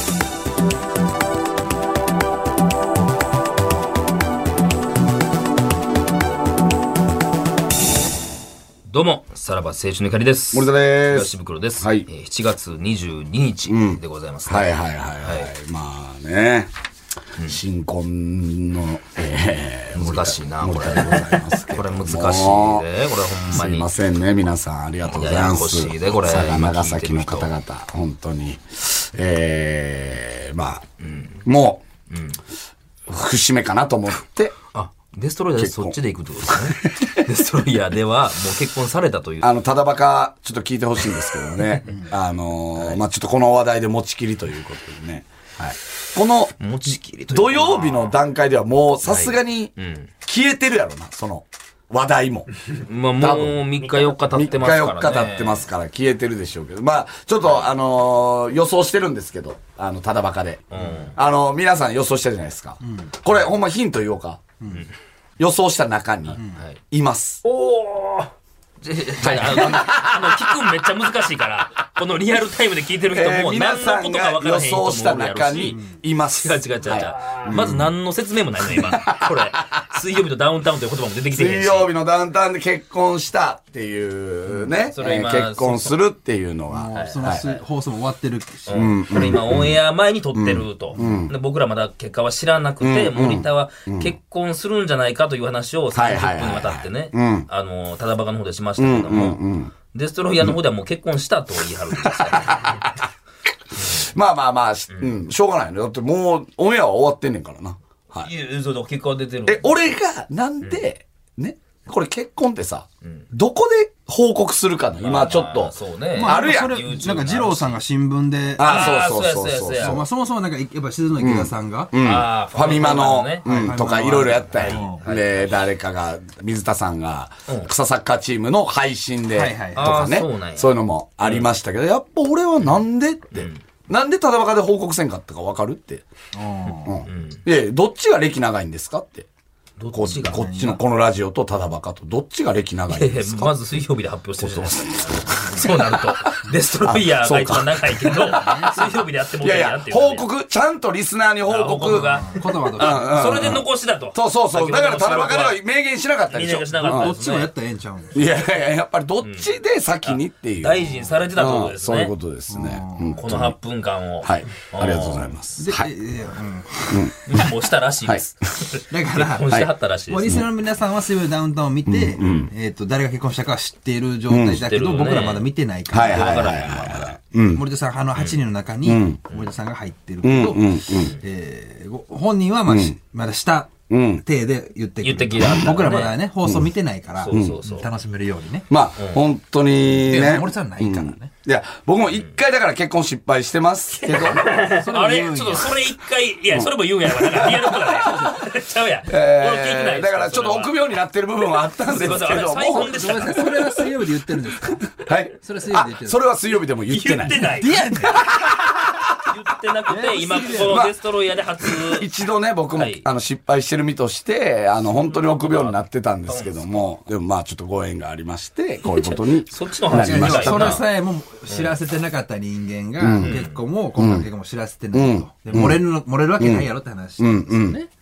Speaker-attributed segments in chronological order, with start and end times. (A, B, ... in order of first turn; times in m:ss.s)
0:08.9-0:14.7 A
0:10.5-0:12.1 B
0:13.7-0:16.7 B
0:15.2-0:15.5 A
0:17.5-0:22.9 B
0:19.9-0:23.9 A
0:23.5-0:30.8 B
0:25.1-0:27.5 A
0:31.0-0:31.4 A
0:31.4-0:31.8 B
0:32.1-0:32.4 A
0:33.1-0:34.6 B
0:34.7-0:39.5 A
0:35.6-0:37.2 B
0:39.4-0:46.6 B
0:41.1-0:41.8 A
0:42.8-0:43.0 A
0:46.6-0:48.2 A
0:47.3-0:49.7 B
0:49.0-0:50.1 A
0:50.2-0:52.6 B
0:52.8-0:55.7 A
0:53.2-0:53.6 B
0:54.2-1:04.4 B
1:00.7-1:01.2 A
1:02.8-1:03.1 C
1:04.6-1:04.9 C
1:05.4-1:07.4 B
1:06.3-1:06.8 A
1:07.4-1:08.3 A
1:08.8-1:21.9 A
1:09.2-1:10.7 B
1:13.1-1:17.9 B
1:18.7-1:19.4 B
1:21.3-1:27.5 B
1:24.9-1:26.0 A
1:26.7-1:28.8 C
1:26.9-1:27.6 A
1:28.7-1:39.4 A
1:28.7-1:29.8 B
1:30.3-1:31.3 B
1:31.0-1:31.2 C
1:32.8-1:34.2 B
1:35.9-1:37.5 B
1:38.8-1:39.7 B
1:39.9-1:43.0 A
1:42.0-1:43.0 B
1:43.8-1:48.3 B
1:44.9-1:45.2 A
1:48.2-1:49.7 A
1:49.5-1:56.8 B
1:55.0-1:57.8 A
1:56.2-1:59.0 C
1:58.6-2:00.0 B
1:58.6-2:00.0 A
1:59.8-2:01.9 C
2:01.2-2:16.1 B
2:02.0-2:05.7 A
2:03.4-2:05.0 C
2:09.3-2:10.1 C
2:09.8-2:11.5 A
2:13.3-2:13.6 A
2:16.3-2:17.0 C
2:16.8-2:19.3 B
2:17.1-2:17.4 A
2:19.8-2:20.4 A
2:19.9-2:23.6 B
2:20.3-2:20.8 C
2:22.9-2:30.3 A
2:24.4-2:26.1 B
2:26.8-2:28.6 B
2:28.3-2:29.1 C
2:29.4-2:37.1 B
2:31.4-2:35.6 A
2:31.9-2:33.2 C
2:36.3-2:37.5 A
2:36.8-2:38.3 C
2:38.1-2:43.6 B
2:39.2-2:42.1 A
2:42.5-2:43.2 C
2:43.2-2:45.4 A
2:44.2-2:45.9 B
2:45.6-2:47.1 C
2:46.9-2:47.2 B
2:47.3-2:50.4 A
2:48.9-2:56.6 C
2:49.5-2:49.7 B
2:51.9-2:52.5 B
2:54.3-2:54.6 B
2:54.6-2:57.2 A
2:55.9-2:57.6 B
2:57.4-3:03.7 C
2:58.8-2:59.2 B
2:59.3-2:59.6 A
3:00.2-3:01.2 B
3:02.7-3:03.0 B
3:03.9-3:04.2 B
3:04.2-3:08.7 C
3:05.0-3:06.2 A
3:06.4-3:06.7 B
3:07.2-3:07.9 A
3:07.3-3:07.6 B
3:08.7-3:14.7 B
3:09.0-3:09.2 A
3:10.0-3:11.3 C
3:12.1-3:12.4 A
3:14.0-3:20.9 A
3:14.5-3:15.8 C
3:16.5-3:18.3 B
3:19.1-3:23.7 B
3:21.8-3:23.6 A
3:22.6-3:26.3 C
3:25.0-3:28.6 B
3:26.9-3:27.9 A
3:27.4-3:28.4 C
3:29.3-3:32.1 A
3:29.9-3:30.8 C
3:30.6-3:31.0 B
3:31.6-3:40.8 B
3:32.7-3:33.0 A
3:34.8-3:36.9 A
3:38.8-3:40.9 A
3:39.9-3:47.9 C
3:41.5-3:41.8 A
3:43.0-3:43.4 B
3:43.2-3:43.6 A
3:44.0-3:44.3 B
3:44.9-3:45.8 B
3:46.4-3:46.7 B
3:47.2-3:47.8 B